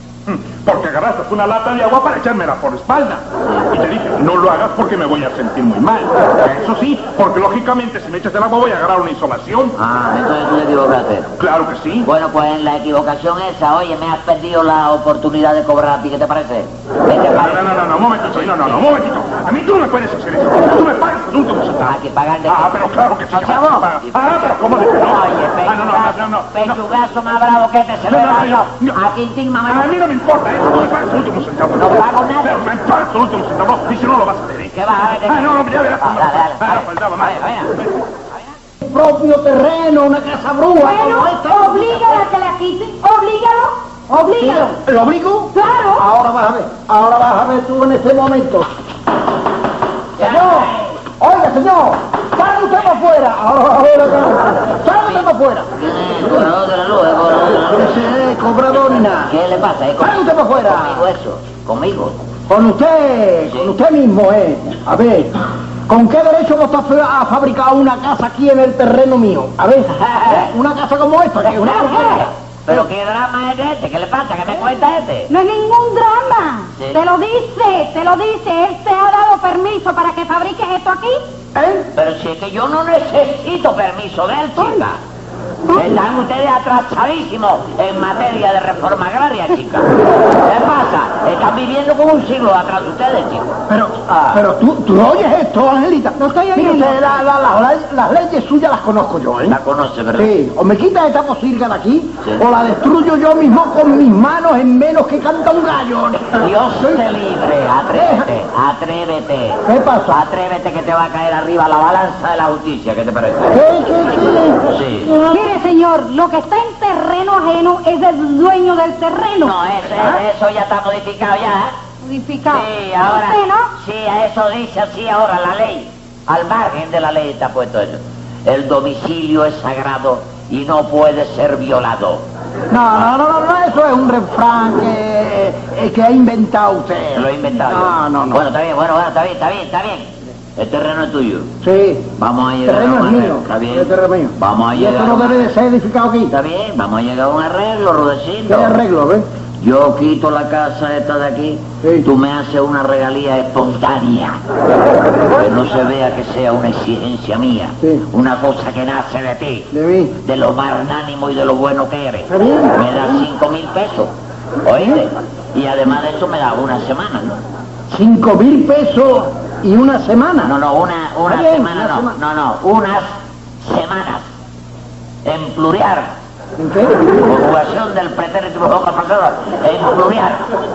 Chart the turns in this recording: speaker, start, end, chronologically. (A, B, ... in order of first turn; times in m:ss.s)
0:00.3-0:09.8 A
0:09.8-0:11.3 B
0:11.4-0:12.1 A
0:12.0-0:18.8 B
0:17.3-0:26.8 A
0:21.8-0:29.9 B
0:28.1-0:29.0 A
0:29.6-0:37.4 A
0:31.8-0:32.7 B
0:34.7-0:37.7 B
0:38.8-0:42.2 C
0:40.8-0:44.8 D
0:44.3-0:48.6 C
0:45.5-0:46.0 D
0:50.2-0:50.9 B
0:50.2-0:55.7 C
0:55.7-0:58.0 B
0:56.2-0:56.5 C
0:57.7-0:59.3 C
0:59.2-1:02.2 B
1:00.0-1:01.0 C
1:02.5-1:12.9 C
1:03.5-1:03.7 B
1:09.9-1:10.5 B
1:11.4-1:15.3 B
1:15.3-1:21.2 D
1:21.5-1:21.9 C
1:21.9-1:25.0 B
1:25.7-1:33.5 B
1:33.7-1:39.6 C
1:34.1-1:34.4 B
1:36.2-1:37.1 D
1:39.5-1:40.3 B
1:40.2-1:47.0 C
1:46.4-1:53.6 B
1:47.9-1:48.3 C
1:49.6-1:50.2 C
1:53.5-1:55.5 C
1:54.6-1:55.2 B
1:55.3-2:00.2 D
1:59.4-2:01.7 B
2:02.0-2:03.7 D
2:02.5-2:12.2 B
2:12.7-2:18.4 C
2:17.1-2:21.5 B
2:21.6-2:22.1 C
2:22.2-2:25.5 B
2:22.6-2:26.3 C
2:26.3-2:28.7 B
2:28.5-2:29.2 C
2:29.6-2:34.4 B
2:31.8-2:32.1 C
2:35.3-2:39.7 B
2:39.7-2:40.2 C
2:40.2-2:44.1 B
2:42.3-2:42.8 C
2:44.6-2:47.4 B
2:47.9-2:50.5 C
2:50.4-2:54.3 B
2:51.3-2:52.1 C
2:55.2-2:56.1 B
2:56.6-2:57.1 C
2:57.2-3:00.5 B